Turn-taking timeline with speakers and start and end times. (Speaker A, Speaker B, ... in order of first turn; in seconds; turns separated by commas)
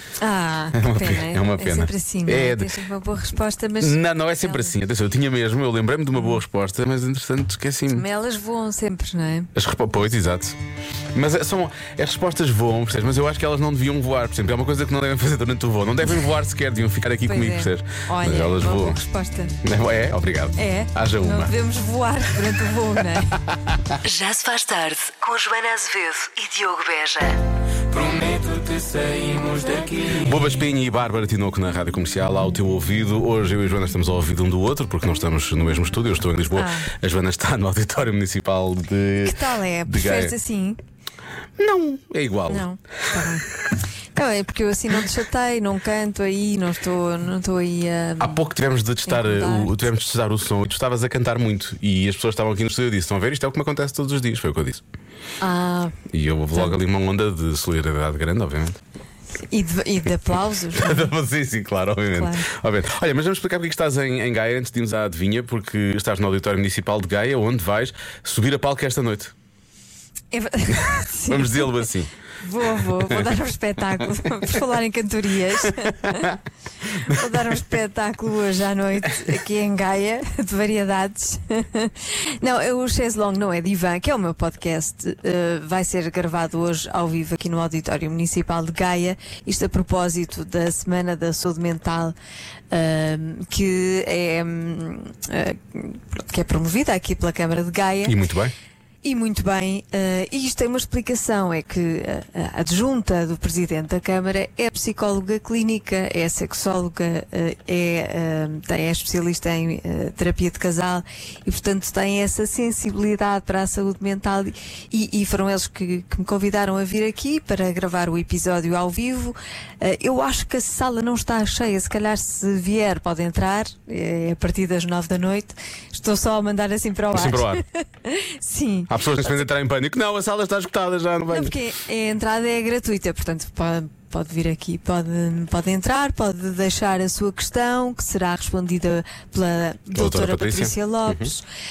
Speaker A: 0.2-4.7, Speaker B: 0.7-2.7, Speaker B: 3.8-8.0, Speaker A: 7.9-9.5, Speaker B: 9.5-10.6, Speaker B: 11.1-19.0, Speaker A: 17.2-19.6, Speaker B: 19.6-21.5, Speaker A: 20.6-23.3, Speaker C: 24.0-27.4, Speaker B: 28.2-28.6, Speaker B: 29.7-40.3, Speaker A: 36.5-36.9, Speaker A: 39.2-40.8, Speaker B: 41.6-42.7, Speaker A: 42.5-43.5, Speaker A: 44.1-48.4, Speaker B: 48.2-54.8, Speaker A: 49.0-49.8, Speaker A: 55.4-56.0, Speaker B: 56.1-58.8, Speaker A: 59.5-61.1, Speaker B: 60.7-69.3, Speaker A: 62.1-62.5, Speaker A: 70.3-71.8, Speaker B: 71.3-72.1, Speaker A: 72.4-76.3, Speaker B: 73.0-73.2, Speaker A: 77.0-92.1, Speaker A: 92.7-98.2, Speaker B: 98.0-98.5, Speaker A: 99.0-129.4, Speaker B: 127.1-127.6, Speaker B: 128.9-131.5, Speaker A: 131.3-141.4, Speaker B: 139.9-141.3